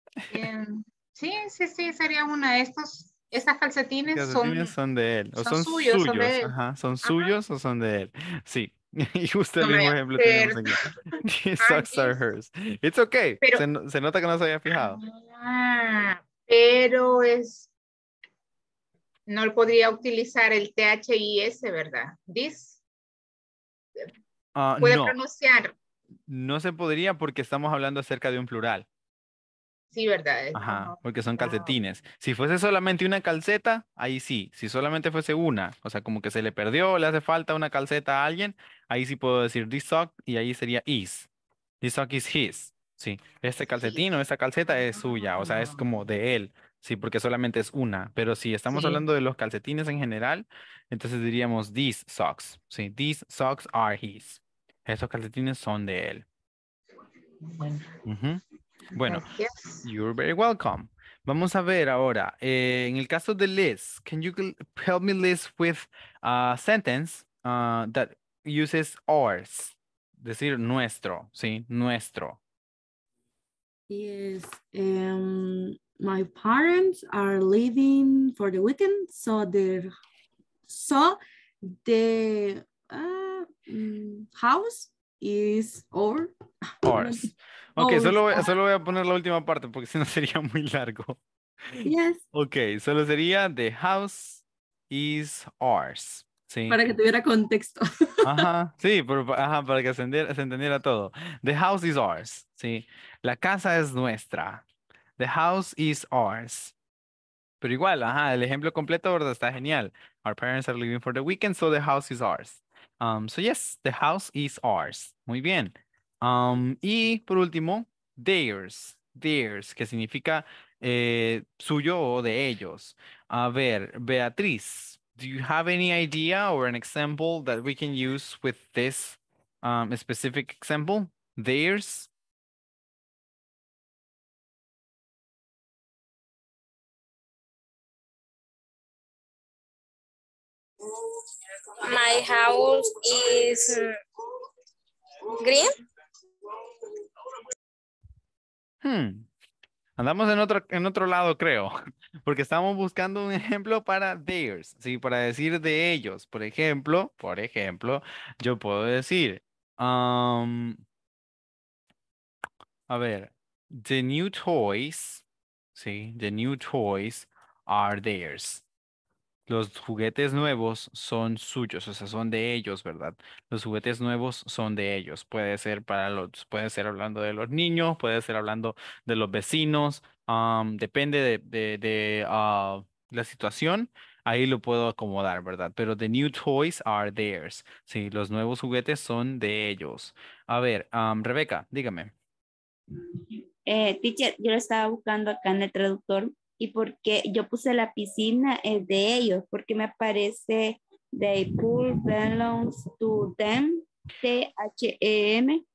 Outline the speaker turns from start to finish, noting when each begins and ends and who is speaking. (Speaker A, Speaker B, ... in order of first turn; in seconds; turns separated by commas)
Speaker A: 0.3-4.7, Speaker B: 4.1-15.0, Speaker A: 5.4-7.3, Speaker A: 9.6-11.0, Speaker A: 11.6-12.2, Speaker A: 14.7-17.7, Speaker A: 19.3-22.8, Speaker B: 24.6-25.2, Speaker A: 24.8-25.8, Speaker B: 26.3-28.9, Speaker A: 29.9-31.8, Speaker B: 30.5-41.3, Speaker B: 41.8-56.2, Speaker A: 44.9-45.9, Speaker A: 48.7-49.0, Speaker A: 57.4-57.9, Speaker B: 58.1-58.4, Speaker B: 58.9-59.2, Speaker A: 59.0-59.9, Speaker B: 59.8-72.4, Speaker C: 73.9-79.9, Speaker C: 80.7-88.5, Speaker B: 86.8-91.2, Speaker B: 91.7-96.8, Speaker C: 91.8-92.2, Speaker C: 96.7-98.5, Speaker B: 98.2-104.6, Speaker B: 105.2-106.7, Speaker B: 107.6-132.1, Speaker D: 141.8-144.0, Speaker D: 145.4-145.7, Speaker B: 148.8-149.3, Speaker B: 150.0-151.7, Speaker B: 152.2-160.8, Speaker B: 162.9-165.2, Speaker B: 165.8-168.6, Speaker B: 169.5-192.1, Speaker E: 193.6-205.6